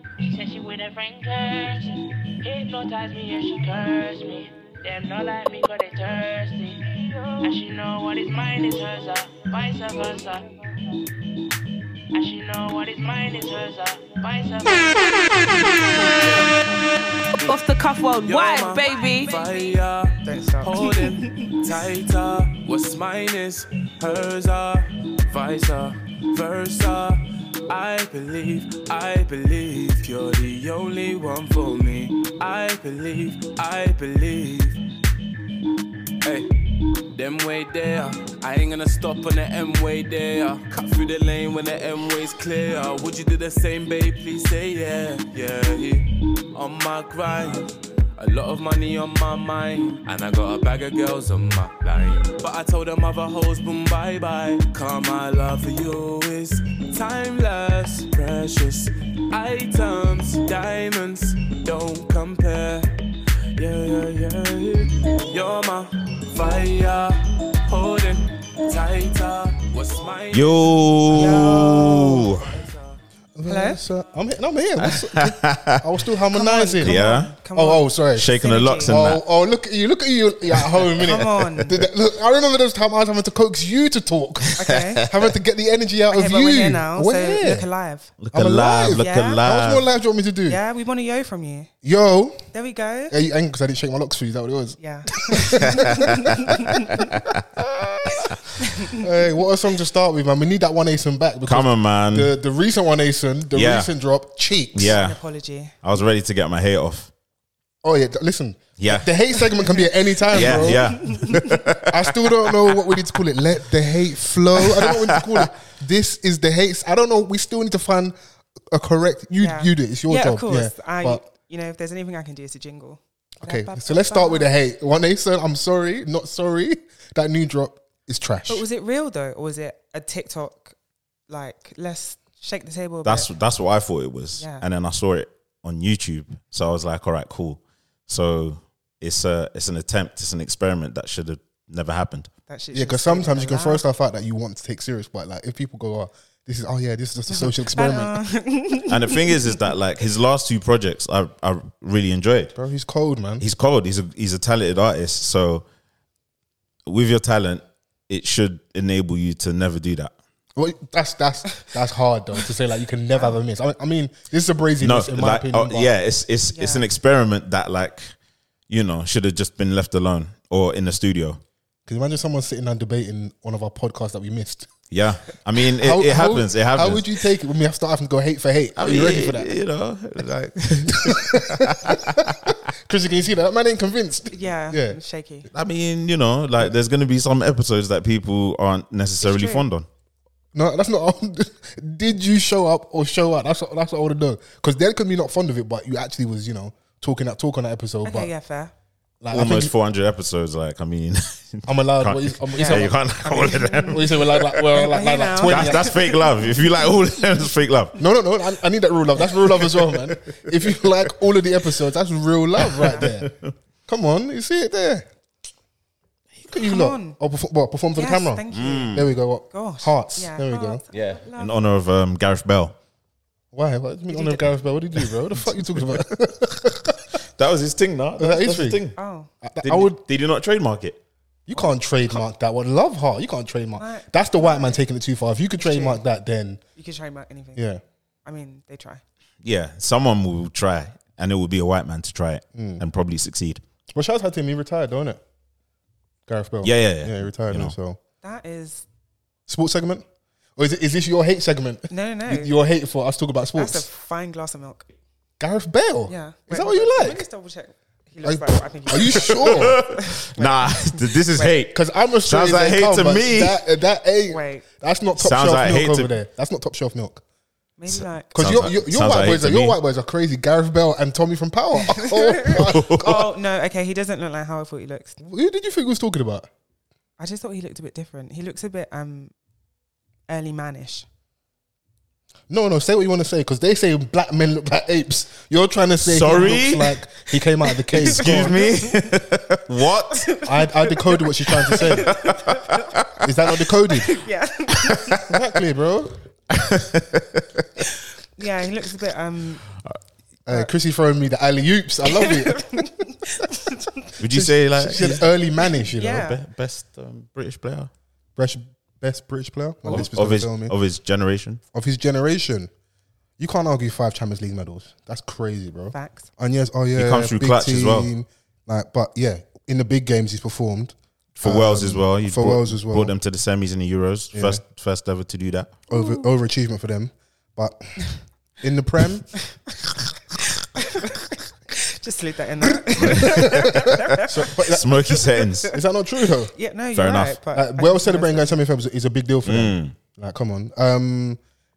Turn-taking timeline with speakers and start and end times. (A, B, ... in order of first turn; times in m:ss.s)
0:00.2-0:10.6 A
0:12.1-0:15.4 A
0:15.4-0:17.5 B
0:17.4-0:19.4 C
0:18.2-0:34.8 B
0:20.2-0:21.5 D
0:36.2-0:36.5 B
0:37.1-1:02.9 B
1:03.6-1:13.0 B
1:10.3-1:12.5 E
1:11.1-1:12.3 F
1:13.4-1:27.7 F
1:13.4-1:13.8 D
1:14.8-1:15.8 E
1:16.3-1:19.0 D
1:16.8-1:17.3 E
1:18.2-1:19.2 E
1:20.7-1:21.8 E
1:21.0-1:21.7 D
1:24.6-1:25.0 D
1:24.6-1:25.2 E
1:26.1-1:28.1 D
1:28.2-1:29.8 E
1:28.3-1:30.6 F
1:29.0-1:29.4 D
1:30.5-1:31.7 D
1:31.8-1:32.4 F
1:32.5-1:33.2 D
1:33.1-1:36.2 F
1:34.8-1:37.0 D
1:37.2-1:38.3 E
1:38.6-1:39.0 D
1:39.0-1:45.0 F
1:41.4-1:42.3 E
1:43.5-1:43.9 E
1:44.7-1:45.2 E
1:44.8-1:45.7 D
1:45.8-1:47.1 E
1:47.8-1:51.0 F
1:48.8-1:49.1 E
1:50.3-1:52.7 E
1:50.5-1:51.6 D
1:51.8-1:58.1 F
1:54.6-1:55.5 E
1:58.7-2:01.2 F
1:59.4-2:04.5 D
2:03.4-2:08.6 F
2:08.5-2:10.7 D
2:11.3-2:13.3 D
2:13.0-2:22.3 E
2:14.4-2:14.6 D
2:22.5-2:23.8 D
2:22.7-2:28.2 F
2:27.3-2:29.2 D
2:28.9-2:32.5 E
2:32.6-2:33.4 F
2:33.4-2:35.6 E
2:36.8-2:40.1 E
2:40.6-2:45.9 F
2:44.8-2:48.1 E
2:46.5-2:46.8 D
2:48.7-2:51.4 E
2:51.8-2:54.7 F
2:54.9-2:57.0 E
2:55.8-2:59.5 F
2:58.8-3:02.6 E
3:00.9-3:05.0 F
3:04.3-3:05.5 D
3:05.5-3:09.8 E
3:09.2-3:09.6 D
3:10.5-3:18.3 F
3:18.0-3:18.7 D
3:19.2-3:19.7 F
3:19.3-3:24.6 E
3:21.6-3:23.0 F
3:22.6-3:24.1 D
3:23.8-3:26.0 F
3:24.7-3:26.2 D
3:25.4-3:27.9 E
3:28.0-3:33.3 F
3:29.6-3:30.7 E
3:32.7-3:33.5 E
3:33.9-3:35.1 F
3:36.5-3:40.8 F
3:36.6-3:37.2 D
3:37.9-3:41.5 D
3:38.5-3:39.1 E
3:40.9-3:42.7 E
3:43.5-3:47.1 F
3:44.1-3:44.5 D
3:47.4-3:49.0 E
3:48.2-3:48.8 F
3:48.9-3:49.3 D
3:49.4-3:50.0 F
3:49.6-3:51.0 E
3:51.5-3:56.6 F
3:53.8-3:54.8 D
3:55.6-3:56.0 D
3:56.8-3:57.6 D
3:57.6-3:57.8 F
3:58.2-3:59.0 D
3:59.4-4:03.6 E
4:02.5-4:02.8 F
4:03.9-4:05.2 F
4:06.3-4:08.0 F
4:06.6-4:07.7 E
4:08.2-4:08.8 D
4:09.5-4:10.0 F
4:10.6-4:13.8 F
4:11.9-4:12.5 D
4:13.5-4:14.8 D
4:15.4-4:17.2 F
4:16.1-4:21.5 D
4:18.2-4:19.8 F
4:19.4-4:23.6 E
4:21.7-4:27.2 F
4:24.3-4:24.6 D
4:25.2-4:26.1 E
4:27.8-4:28.4 D
4:27.9-4:29.8 E
4:28.3-4:33.3 F
4:31.9-4:35.2 D
4:32.5-4:33.2 E
4:35.2-4:36.5 F
4:37.2-4:39.3 D
4:40.3-4:41.1 D
4:42.5-4:48.6 F
4:46.0-4:47.0 E
4:47.8-4:49.0 D
4:47.9-4:50.3 E
4:50.3-4:52.8 D
4:50.4-4:52.1 F
4:51.8-4:53.2 E
4:53.2-4:54.2 F
4:53.8-4:55.3 D
4:55.2-4:56.2 F
4:56.5-4:57.8 E
4:58.4-4:59.6 D
5:00.5-5:02.9 F
5:02.1-5:04.0 D
5:04.2-5:05.2 E
5:04.3-5:06.3 F
5:05.8-5:06.4 D
5:06.1-5:07.9 E
5:08.4-5:10.7 F
5:09.8-5:11.6 E
5:11.7-5:12.7 F
5:13.4-5:23.1 F
5:15.9-5:16.3 D
5:17.0-5:18.1 E
5:21.4-5:25.8 E
5:24.3-5:24.6 F
5:25.9-5:26.3 D
5:25.9-5:28.0 F
5:28.6-5:29.3 F
5:30.8-5:34.3 D
5:32.9-5:35.0 F
5:33.1-5:33.4 E
5:34.7-5:35.7 E
5:35.1-5:35.7 D
5:35.7-5:36.5 F
5:36.5-5:38.6 D
5:36.9-5:37.4 E
5:37.5-5:41.4 F
5:39.4-5:39.9 E